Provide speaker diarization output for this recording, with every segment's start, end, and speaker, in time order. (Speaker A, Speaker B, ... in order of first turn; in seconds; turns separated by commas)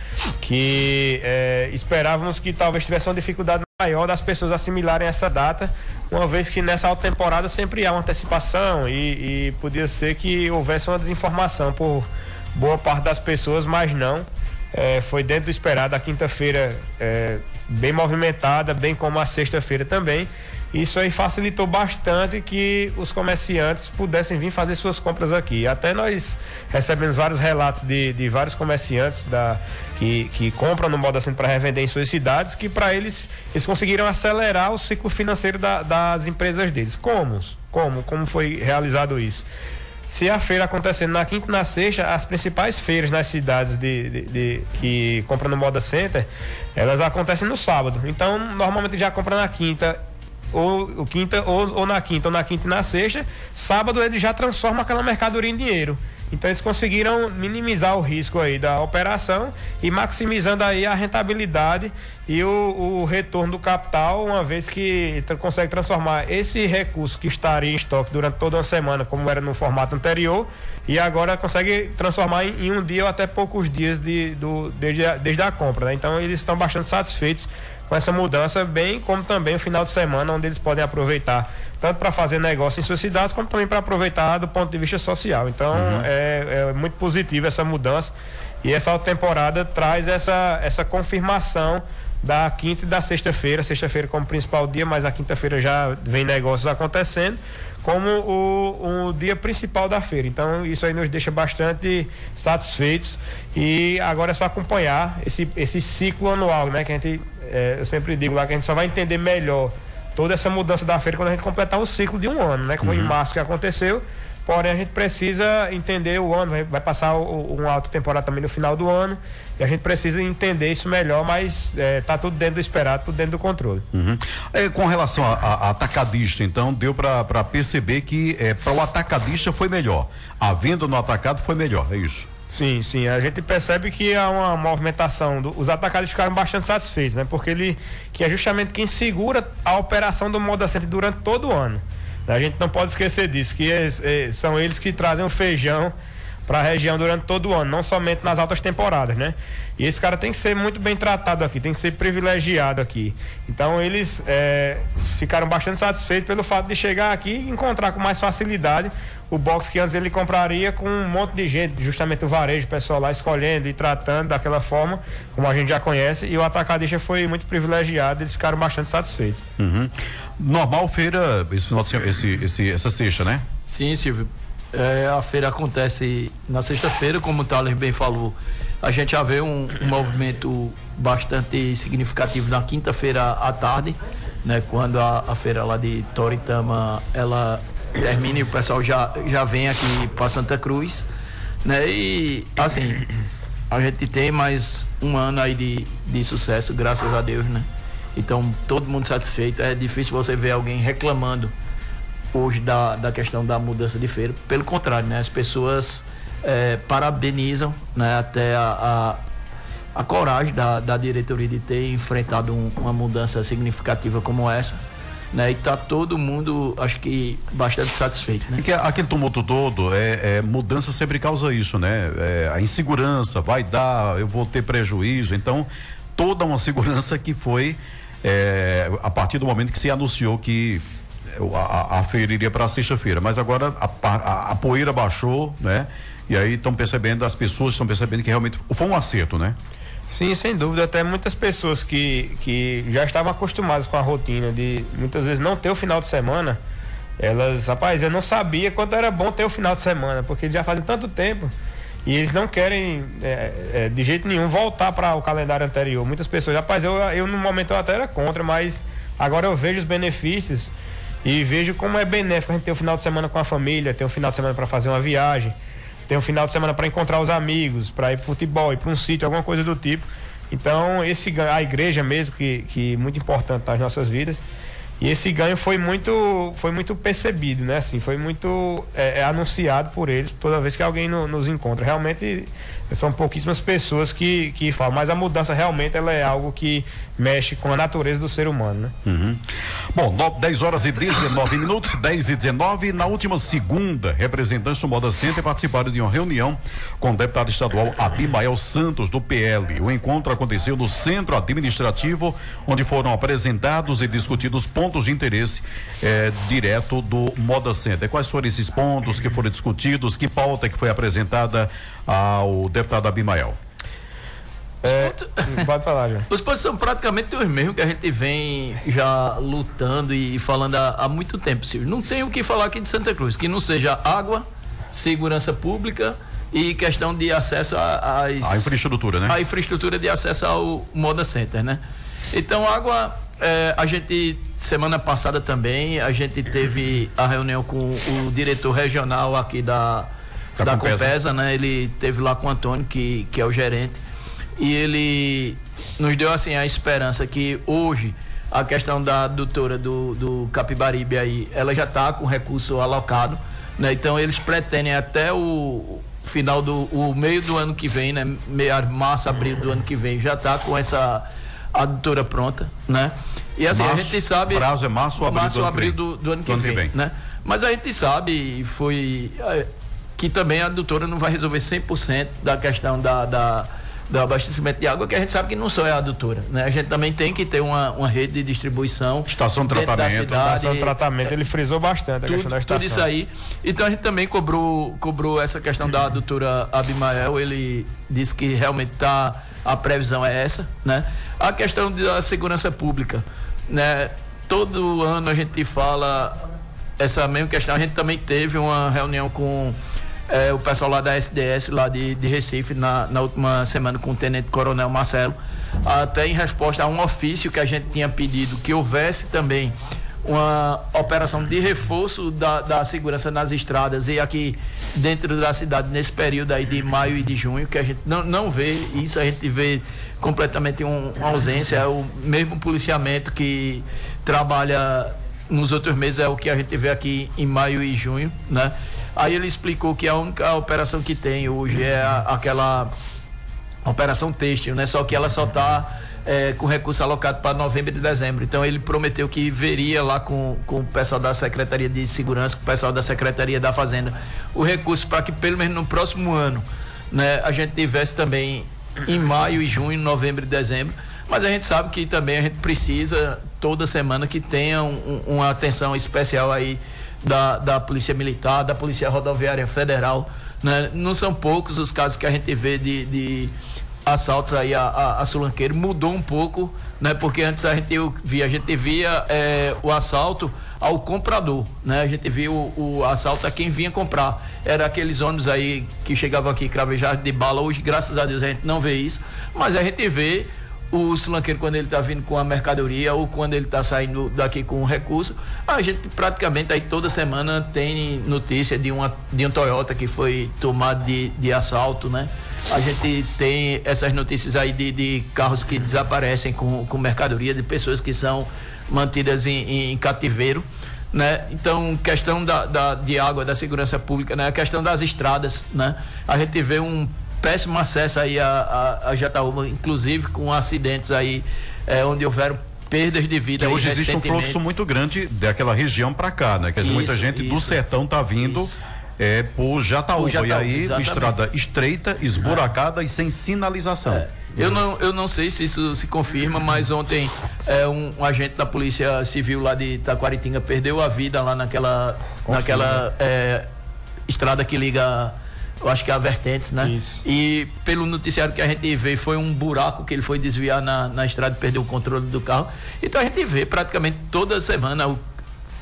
Speaker A: 0.4-39.5, Speaker A: 40.1-50.0, Speaker A: 50.5-88.1, Speaker B: 85.7-86.1, Speaker A: 88.6-123.8, Speaker B: 112.8-113.1, Speaker B: 123.9-132.3, Speaker A: 132.5-145.9, Speaker A: 146.5-169.4, Speaker B: 169.6-173.4, Speaker C: 173.7-191.1, Speaker C: 191.6-193.1, Speaker C: 193.7-201.5, Speaker C: 202.3-209.2, Speaker C: 209.9-214.8, Speaker C: 215.3-218.6, Speaker B: 218.6-239.6, Speaker A: 240.1-246.6, Speaker A: 247.2-251.5, Speaker A: 252.1-260.7, Speaker A: 261.2-265.5, Speaker A: 266.1-274.4, Speaker A: 275.0-288.9, Speaker B: 289.0-313.6, Speaker C: 314.8-315.7, Speaker A: 314.8-316.3, Speaker C: 316.3-328.7, Speaker B: 328.4-329.4, Speaker C: 329.3-331.8, Speaker C: 332.3-340.1, Speaker B: 340.6-341.1, Speaker C: 340.6-344.0, Speaker C: 344.6-364.6, Speaker B: 363.7-366.9, Speaker C: 365.2-380.9, Speaker B: 379.3-380.4, Speaker A: 380.4-383.1, Speaker C: 382.3-396.4, Speaker C: 397.0-399.8, Speaker C: 400.3-432.9, Speaker C: 433.8-514.6, Speaker B: 513.6-524.8, Speaker C: 516.8-517.8, Speaker C: 518.4-518.8, Speaker C: 520.1-521.4, Speaker C: 524.1-533.6, Speaker A: 532.5-533.0, Speaker C: 534.3-545.2, Speaker A: 536.8-537.2